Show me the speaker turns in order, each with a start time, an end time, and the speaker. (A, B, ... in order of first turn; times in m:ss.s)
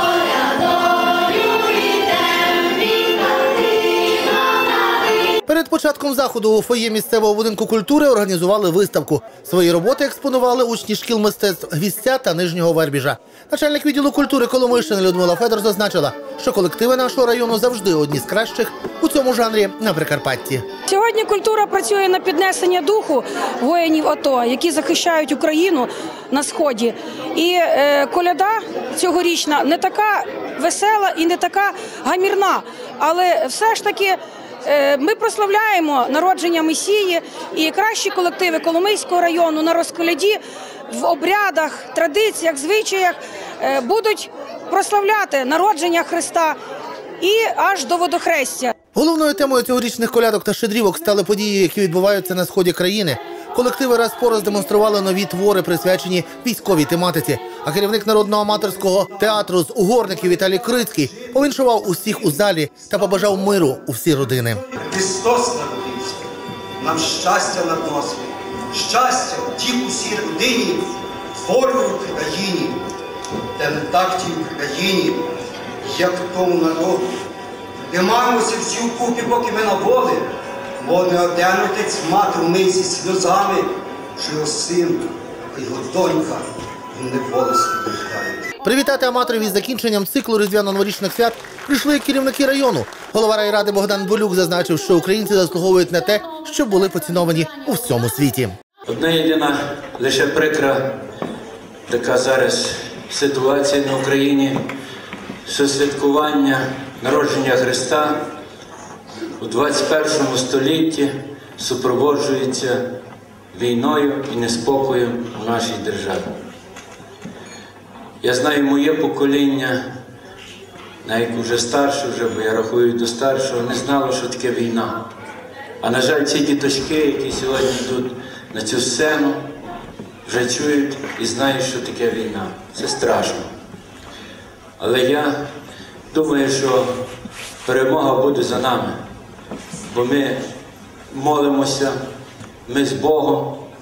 0:05.5-0:20.6 A
0:20.9-0:40.4 B
0:40.9-0:46.6 B
0:47.2-0:48.7 B
0:48.9-1:04.7 A
1:04.7-1:06.2 C
1:06.8-1:12.8 C
1:13.6-1:15.3 C
1:15.8-1:17.1 C
1:17.9-1:28.5 C
1:28.6-1:38.6 A
1:38.9-1:40.9 D
1:41.9-1:44.6 D
1:45.4-1:48.2 D
1:49.4-1:52.8 D
1:53.5-1:56.3 D
1:58.2-1:59.8 D
2:01.0-2:05.0 D
2:05.8-2:09.4 D
2:10.2-2:13.5 D
2:14.8-2:15.4 D
2:16.1-2:16.9 D
2:17.6-2:19.0 D
2:19.8-2:20.4 D
2:21.1-2:22.0 D
2:22.7-2:23.6 D